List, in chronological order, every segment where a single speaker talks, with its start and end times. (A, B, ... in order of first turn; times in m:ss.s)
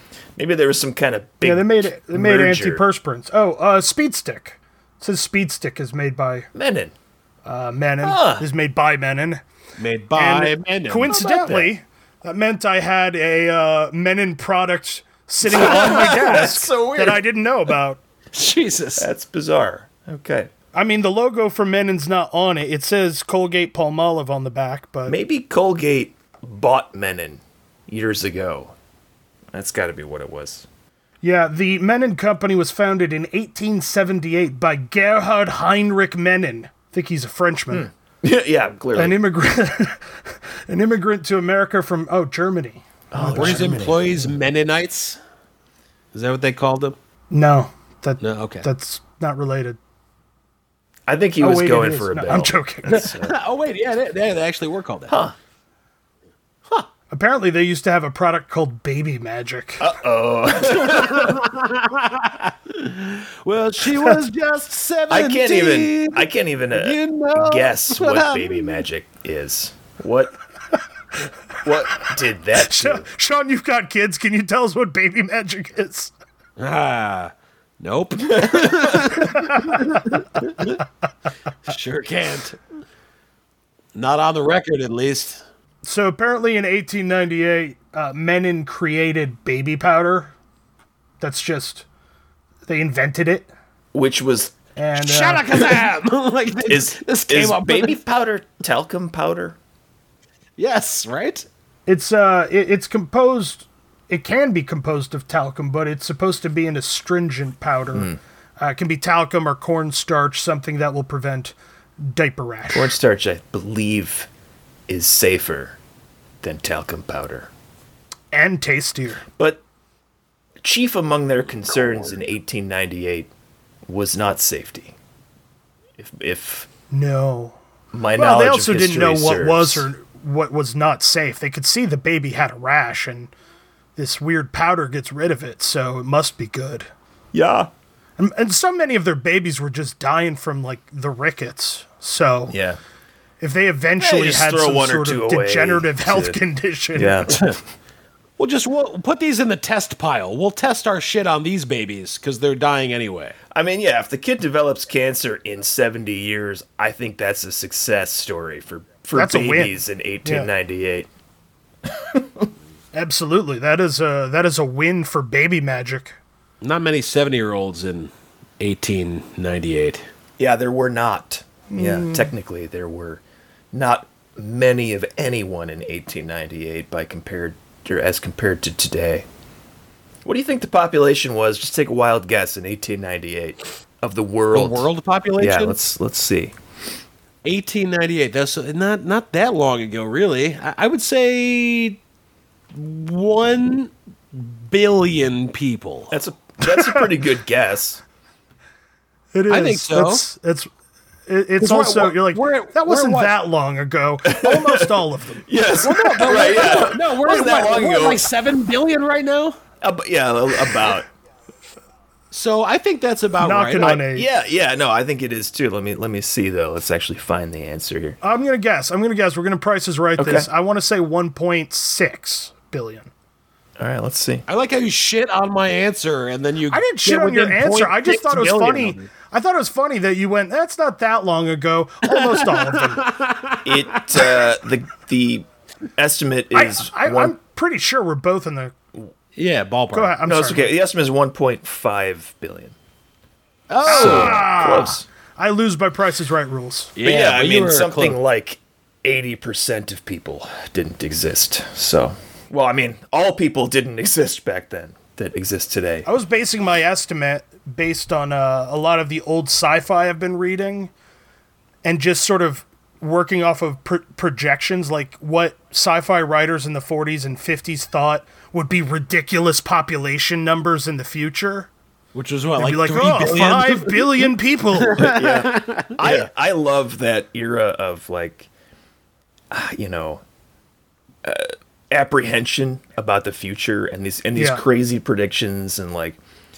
0:00.4-0:02.8 A
0:01.4-0:06.5 B
0:06.5-0:06.9 A
0:07.4-0:09.4 B
0:08.0-0:08.5 A
0:09.8-0:11.1 C
0:10.1-0:18.0 B
0:11.1-0:11.7 A
0:15.4-0:17.2 A
0:15.6-0:16.4 C
0:18.3-0:19.1 C
0:19.0-0:20.5 A
0:20.7-0:25.2 B
0:25.1-0:28.7 A
0:29.5-0:30.6 A
0:31.2-0:37.9 B
0:37.7-0:39.2 A
0:38.9-0:43.9 B
0:43.1-0:44.2 A
0:43.3-0:45.2 C
0:46.1-0:47.0 C
0:47.3-0:49.8 B
0:48.2-0:48.6 C
0:51.1-0:53.4 A
0:51.4-0:53.1 B
0:52.9-0:55.1 C
0:55.1-0:55.3 A
0:57.1-0:59.9 B
0:59.8-1:01.4 A
1:00.6-1:08.8 C
1:05.1-1:10.3 A
1:11.6-1:13.1 A
1:12.5-1:16.1 B
1:16.6-1:20.8 C
1:18.3-1:19.2 A
1:19.3-1:19.8 B
1:21.6-1:22.6 C
1:23.9-1:25.4 C
1:25.8-1:30.3 B
1:31.2-1:31.8 B
1:32.6-1:33.5 B
1:33.9-1:34.5 A
1:34.8-1:35.5 B
1:35.0-1:38.0 C
1:36.7-1:39.6 A
1:40.6-1:41.4 C
1:41.9-1:52.9 B
1:52.7-1:54.3 A
1:54.9-1:55.8 A
1:56.4-1:57.5 A
1:58.3-1:59.2 B
2:00.6-2:03.3 A
2:03.8-2:04.9 A
2:06.0-2:06.7 A
2:06.9-2:07.6 B
2:07.9-2:09.9 A
2:08.2-2:13.3 B
2:14.0-2:16.9 B
2:17.3-2:17.7 A
2:18.2-2:22.6 B
2:22.5-2:22.8 A
2:23.4-2:27.4 B
2:24.0-2:26.4 A
2:26.9-2:27.4 A
2:27.3-2:27.6 C
2:28.4-2:33.4 C
2:33.5-2:41.1 A
2:39.1-2:40.5 B
2:41.9-2:42.5 A
2:42.9-2:46.2 B
2:46.6-2:50.0 C
2:50.4-2:59.2 A
2:51.7-2:52.3 B
3:00.2-3:06.5 A
3:04.5-3:05.8 C
3:07.4-3:12.0 C
3:12.7-3:16.1 C
3:16.1-3:18.0 A
3:16.6-3:17.1 B
3:19.3-3:20.7 B
3:19.5-3:20.2 C
3:21.3-3:26.2 B
3:21.6-3:23.4 C
3:24.2-3:28.3 A
3:25.8-3:29.6 C
3:29.8-3:31.1 A
3:32.3-3:34.0 C
3:33.4-3:34.3 B
3:33.8-3:38.2 A
3:38.2-3:43.1 B
3:40.2-3:40.5 A
3:43.8-3:44.4 A
3:44.5-3:49.0 C
3:46.7-3:53.1 B
3:52.2-3:54.3 C
3:53.6-3:57.3 A
3:56.5-3:58.7 B
3:59.4-4:00.1 C
3:59.9-4:00.7 B
4:00.2-4:02.7 A
4:03.7-4:04.5 C
4:03.8-4:06.9 B
4:03.9-4:05.0 A
4:07.0-4:08.2 C
4:07.0-4:16.1 A
4:16.0-4:20.9 B
4:21.8-4:31.7 B
4:32.1-4:36.3 C
4:32.6-4:35.1 B
4:35.0-4:38.5 A
4:39.5-4:40.2 A
4:41.2-4:46.2 A
4:44.4-4:44.6 B